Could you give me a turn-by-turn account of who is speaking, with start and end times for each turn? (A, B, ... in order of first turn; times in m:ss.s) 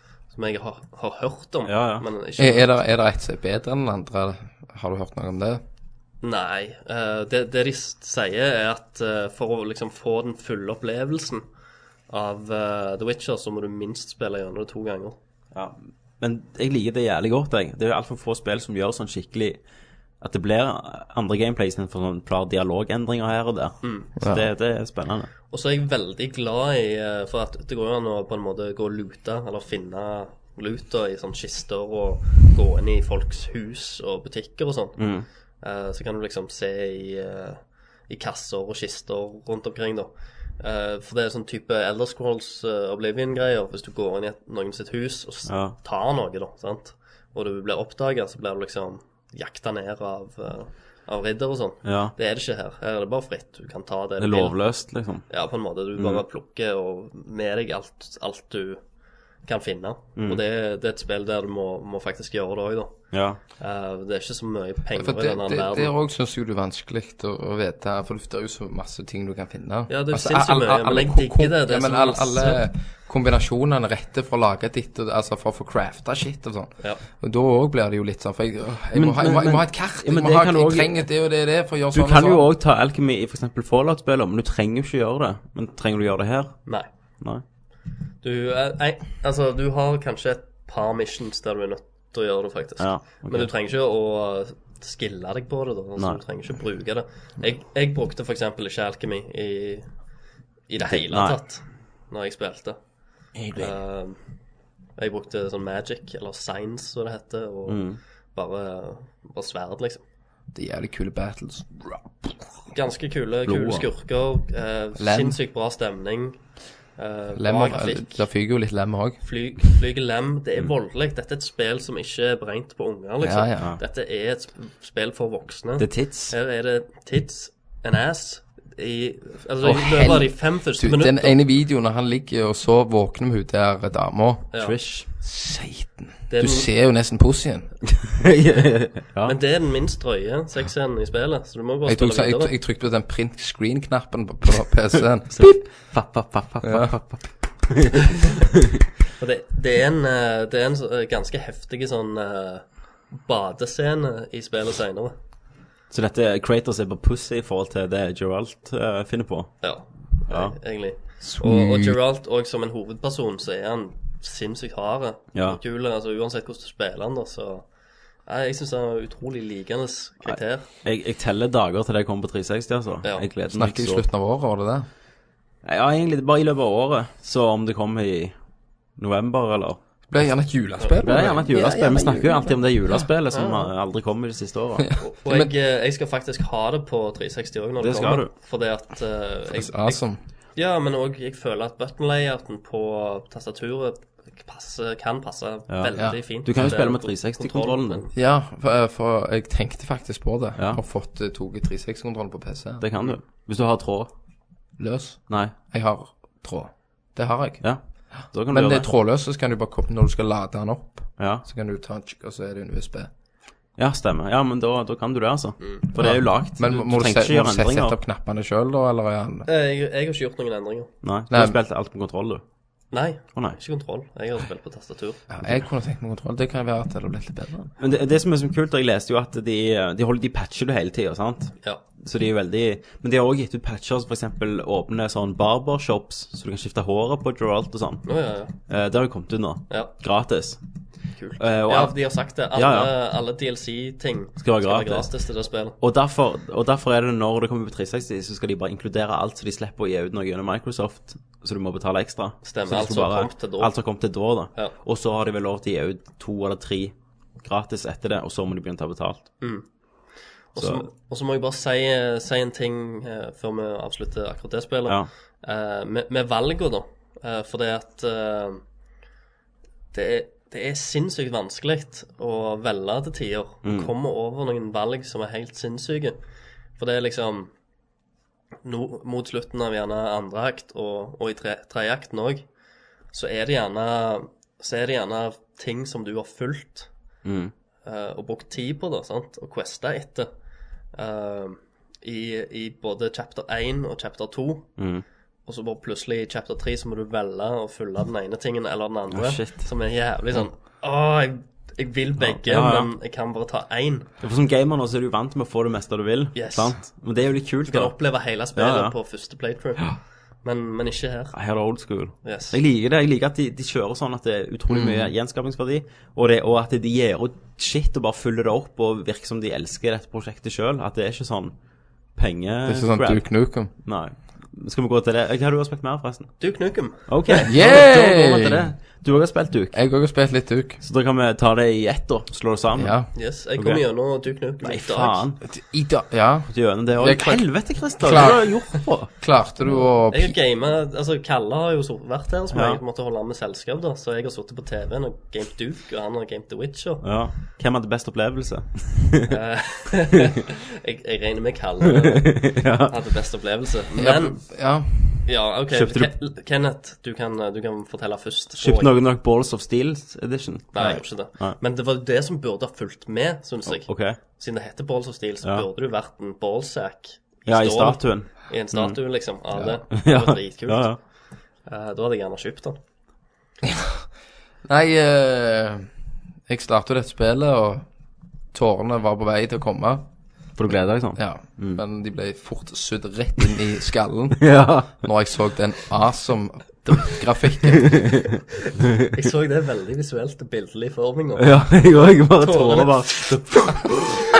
0:00.3-0:02.7 A
0:01.6-0:02.0 B
0:02.4-0:05.6 C
0:06.2-0:11.4 A
0:12.1-0:15.2 A
0:15.5-0:19.6 B
0:20.2-0:25.3 B
0:23.8-0:24.1 A
0:24.2-0:24.5 C
0:25.5-0:35.1 A
0:35.0-0:35.2 B
0:35.6-0:54.6 A
0:45.5-0:45.8 B
0:51.8-0:52.1 B
0:54.2-0:55.2 B
0:55.3-0:58.8 A
0:56.0-0:56.2 B
0:59.4-1:03.1 A
1:03.1-1:03.4 B
1:03.6-1:05.9 A
1:04.9-1:22.5 C
1:09.9-1:12.6 A
1:18.9-1:21.0 B
1:21.9-1:26.6 B
1:28.2-1:39.9 A
1:32.8-1:33.5 B
1:40.7-1:42.8 A
1:40.8-1:41.4 B
1:43.5-1:44.2 A
1:45.0-1:47.8 A
1:47.7-1:48.0 B
1:48.3-1:50.0 A
1:50.5-1:52.5 C
1:52.7-1:56.4 A
1:53.5-1:53.8 B
1:55.0-1:55.4 C
1:57.0-1:58.2 A
1:57.3-1:59.2 C
1:59.2-2:11.4 A
2:03.2-2:03.7 C
2:05.8-2:06.3 B
2:09.6-2:14.5 C
2:14.6-2:15.1 B
2:15.2-2:17.7 C
2:16.3-2:16.7 A
2:18.1-2:19.4 B
2:19.2-2:22.5 A
2:21.8-2:25.6 C
2:25.3-2:28.0 B
2:26.6-2:27.0 C
2:29.2-2:35.1 A
2:35.9-2:39.5 B
2:39.6-2:47.6 A
2:40.3-2:40.5 B
2:41.2-2:42.0 C
2:45.3-2:45.6 B
2:48.2-2:50.6 A
2:50.2-2:54.0 B
2:53.5-2:54.9 C
2:55.6-2:58.4 B
2:59.0-2:59.8 B
3:00.1-3:03.1 C
3:00.8-3:01.2 A
3:01.0-3:04.8 B
3:03.3-3:03.7 A
3:04.8-3:05.5 C
3:05.0-3:10.0 A
3:07.8-3:08.3 B
3:09.5-3:10.2 C
3:10.6-3:18.1 A
3:15.7-3:18.0 B
3:16.0-3:16.7 C
3:18.1-3:22.8 C
3:22.8-3:24.1 B
3:24.8-3:33.1 C
3:25.3-3:25.5 B
3:27.6-3:28.9 B
3:31.2-3:31.4 B
3:33.8-3:38.0 B
3:35.9-3:39.5 C
3:39.5-3:40.9 A
3:41.0-3:42.4 B
3:41.3-3:41.6 C
3:42.9-3:45.2 A
3:45.3-3:47.7 C
3:47.8-3:58.0 B
3:58.0-3:58.5 A
3:58.7-4:00.6 B
4:01.2-4:05.8 A
4:01.4-4:02.0 B
4:02.5-4:02.9 B
4:04.4-4:05.1 B
4:05.8-4:19.3 B
4:12.4-4:13.7 A
4:19.4-4:19.6 A
4:20.5-4:28.6 A
4:20.6-4:20.8 B
4:29.9-4:36.2 A
4:33.6-4:33.9 B
4:36.8-4:37.5 A
4:38.6-4:42.4 A
4:43.1-4:46.9 A
4:47.2-4:47.5 B
4:47.8-4:50.3 A
4:50.9-4:54.7 A
4:54.8-4:55.0 B
4:55.4-5:04.1 A
4:59.1-4:59.7 B
5:02.2-5:02.9 B
5:04.2-5:07.9 B
5:06.3-5:07.0 A
5:07.7-5:11.3 A
5:08.5-5:08.9 B
5:11.3-5:21.6 B
5:12.2-5:12.6 A
5:14.7-5:15.1 C
5:22.2-5:26.5 B
5:22.6-5:23.7 C
5:26.4-5:27.5 A
5:27.0-5:29.8 B
5:27.4-5:28.7 C
5:29.7-5:30.8 C
5:30.8-5:33.0 B
5:32.7-5:33.1 C
5:33.1-5:35.2 A
5:33.6-5:33.8 B
5:34.6-5:35.4 B
5:35.4-5:40.4 C
5:36.5-5:39.1 B
5:40.1-5:47.1 A
5:42.5-5:42.8 B
5:47.0-5:49.3 B
5:49.3-5:54.4 A
5:52.2-5:52.9 B
5:54.0-5:55.3 C
5:55.2-5:58.9 A
5:55.7-5:56.1 B
5:58.6-6:01.6 B
6:00.7-6:11.0 A
6:03.7-6:04.2 B
6:07.5-6:09.0 B
6:09.9-6:11.0 B
6:11.6-6:12.8 A
6:13.6-6:14.0 C
6:14.6-6:15.9 C
6:16.5-6:17.8 C
6:18.5-6:20.1 C
6:20.6-6:21.8 B
6:21.2-6:28.1 C
6:24.4-6:25.0 B
6:27.9-6:29.1 B
6:29.1-6:33.5 A
6:31.4-6:33.8 B